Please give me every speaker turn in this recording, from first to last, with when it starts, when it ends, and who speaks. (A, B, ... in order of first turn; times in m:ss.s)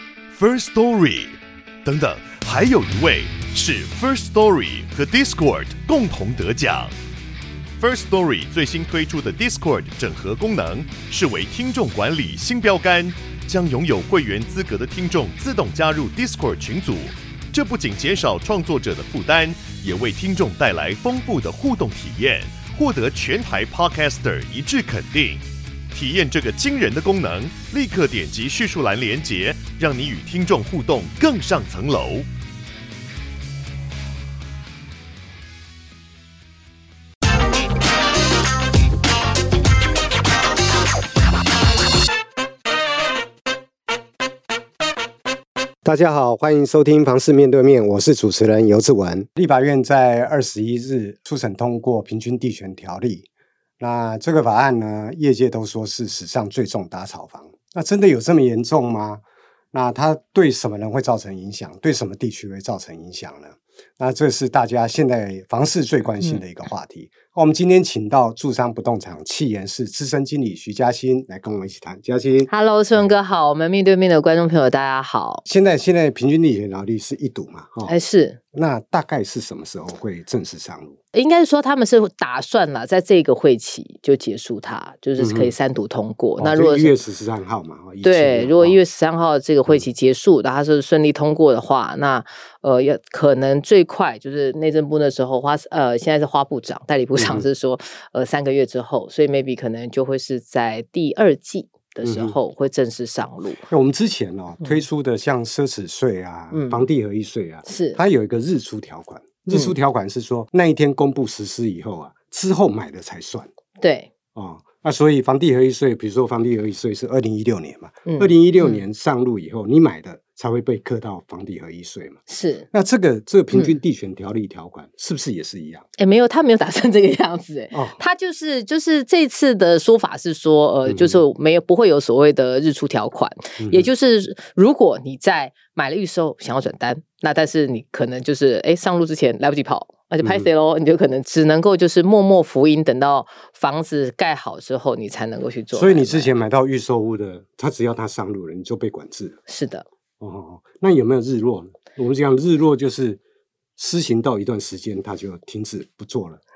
0:00.3-0:06.9 A
0:07.8-0:32.3 A
0:45.8-0:53.3 B
0:53.8-1:13.1 B
1:12.5-1:15.4 C
1:15.5-1:17.9 B
1:17.8-1:18.4 C
1:18.5-1:21.0 B
1:21.1-1:27.0 C
1:25.2-1:25.5 B
1:26.4-1:28.8 B
1:28.0-1:43.7 C
1:37.2-1:37.5 B
1:42.0-1:42.4 B
1:43.7-1:53.5 B
1:46.5-1:46.9 C
1:47.6-1:48.0 C
1:53.8-1:54.1 C
1:54.4-2:05.9 B
1:58.1-1:58.8 C
2:02.3-2:02.7 C
2:03.5-2:03.8 C
2:06.0-2:26.3 C
2:07.7-2:08.0 B
2:10.9-2:11.2 B
2:13.6-2:13.9 B
2:20.2-2:20.5 B
2:25.7-2:29.4 B
2:29.5-2:29.9 C
2:30.2-2:33.2 B
2:33.8-2:36.4 B